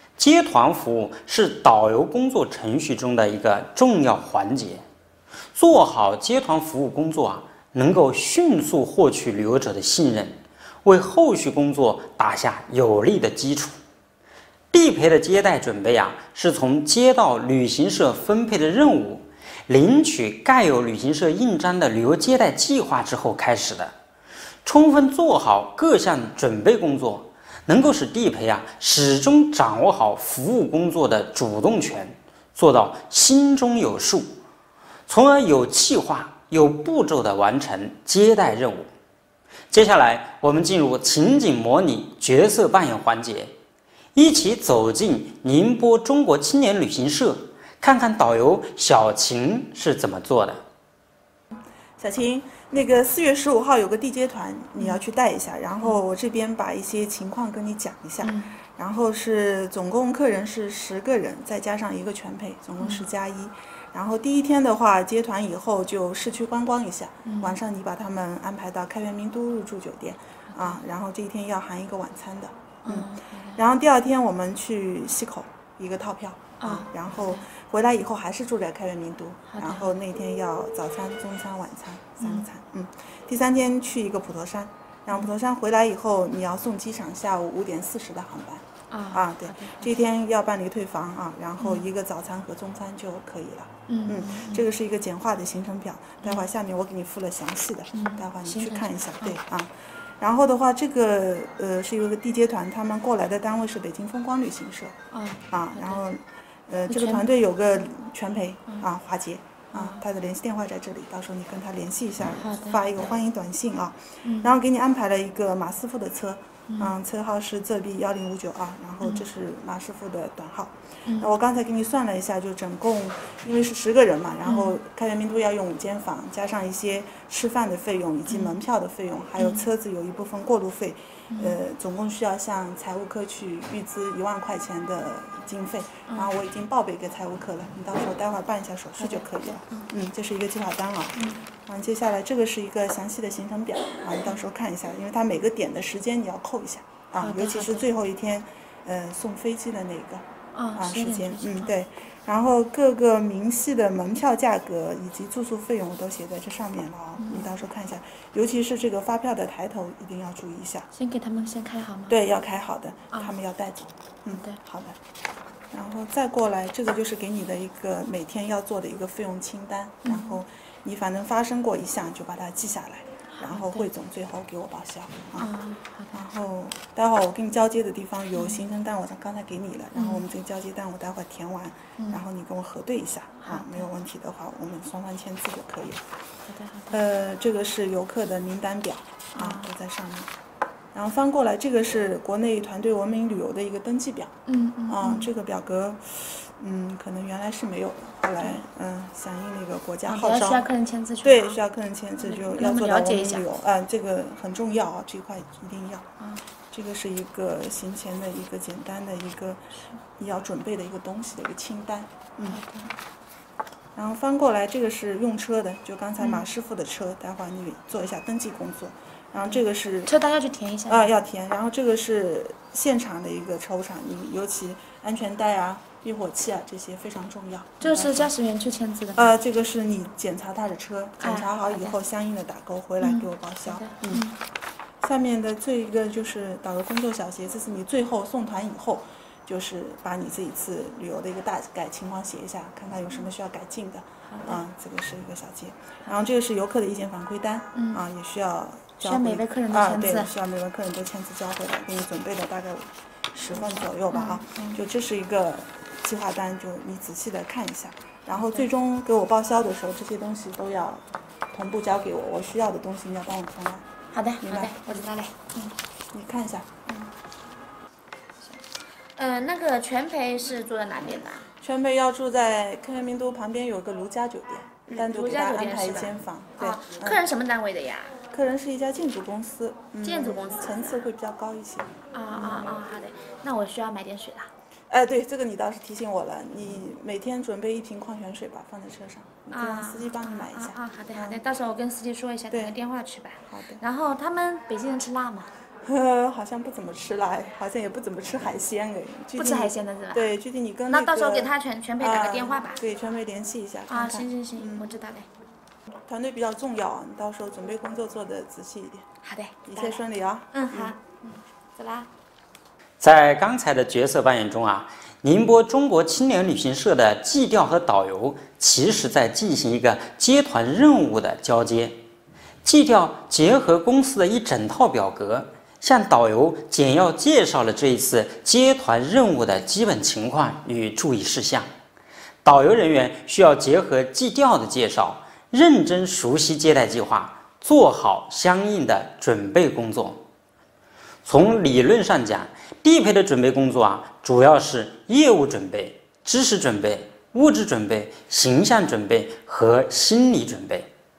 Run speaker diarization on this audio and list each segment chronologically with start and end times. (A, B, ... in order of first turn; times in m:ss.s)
0:00.2-0:04.8 A
0:05.5-0:13.8 A
0:14.7-0:23.9 A
0:24.6-0:34.3 A
0:35.1-0:38.9 A
0:39.7-0:43.5 A
0:44.2-0:50.6 A
0:51.5-1:44.9 B
0:58.2-0:58.6 C
1:02.8-1:03.1 C
1:07.2-1:07.6 C
1:10.5-1:10.8 C
1:12.8-1:13.6 C
1:16.6-1:17.4 C
1:19.5-1:20.0 C
1:22.2-1:22.5 C
1:28.9-1:30.0 C
1:31.6-1:31.8 C
1:33.9-1:34.6 C
1:36.2-1:36.5 C
1:37.9-1:39.4 C
1:45.1-1:46.0 C
1:45.5-2:30.2 B
1:46.9-1:47.3 C
1:49.7-1:50.0 C
1:52.4-1:52.8 C
1:54.2-1:54.5 C
1:56.7-1:56.9 C
1:59.0-1:59.3 C
2:01.1-2:01.3 C
2:04.5-2:04.8 C
2:08.3-2:08.6 C
2:09.4-2:09.7 C
2:11.3-2:11.6 C
2:19.0-2:19.9 C
2:21.2-2:21.4 C
2:27.2-2:27.9 C
2:30.5-2:31.7 C
2:30.8-2:40.9 B
2:37.2-2:37.5 C
2:40.9-2:42.2 C
2:42.1-2:45.0 B
2:44.3-2:44.6 C
2:45.7-2:55.5 B
2:50.0-2:50.4 C
2:53.3-2:53.9 C
2:55.4-2:56.2 C
2:56.1-3:06.0 B
2:58.3-2:58.6 C
3:00.0-3:00.3 C
3:02.0-3:02.2 C
3:03.4-3:03.9 C
3:06.5-3:07.0 C
3:06.9-3:10.3 B
3:09.4-3:09.7 C
3:10.9-3:14.3 B
3:14.5-3:15.3 C
3:14.9-3:20.6 B
3:20.1-3:21.6 C
3:21.2-3:26.0 B
3:22.2-3:23.5 C
3:26.2-3:26.4 C
3:26.7-3:29.6 B
3:30.2-3:32.6 B
3:32.5-3:32.9 C
3:34.0-3:40.1 B
3:36.2-3:36.5 C
3:39.5-3:41.1 C
3:40.9-3:48.3 B
3:47.8-3:49.3 C
3:49.2-3:54.3 B
3:51.2-3:52.0 C
3:53.0-3:54.4 C
3:55.0-4:23.8 B
4:04.3-4:04.6 C
4:07.8-4:08.0 C
4:09.0-4:10.3 C
4:13.6-4:14.8 C
4:18.4-4:18.6 C
4:24.1-4:25.7 C
4:24.4-4:25.1 B
4:26.1-4:27.1 B
4:29.2-4:31.5 C
4:31.6-4:37.2 B
4:34.9-4:38.2 C
4:38.3-4:42.8 B
4:40.0-4:41.0 C
4:42.1-4:44.5 C
4:44.9-4:51.4 B
4:49.5-4:55.5 C
4:52.5-4:52.8 B
4:53.5-4:53.8 B
4:55.8-5:04.9 B
4:59.4-5:00.3 C
5:00.9-5:02.8 C
5:03.9-5:05.3 C
5:06.1-5:09.0 B
5:09.2-5:12.1 C
5:09.7-5:11.0 B
5:13.0-5:22.0 A
5:22.6-5:31.7 A
5:32.4-5:40.2 A
5:41.2-5:50.9 A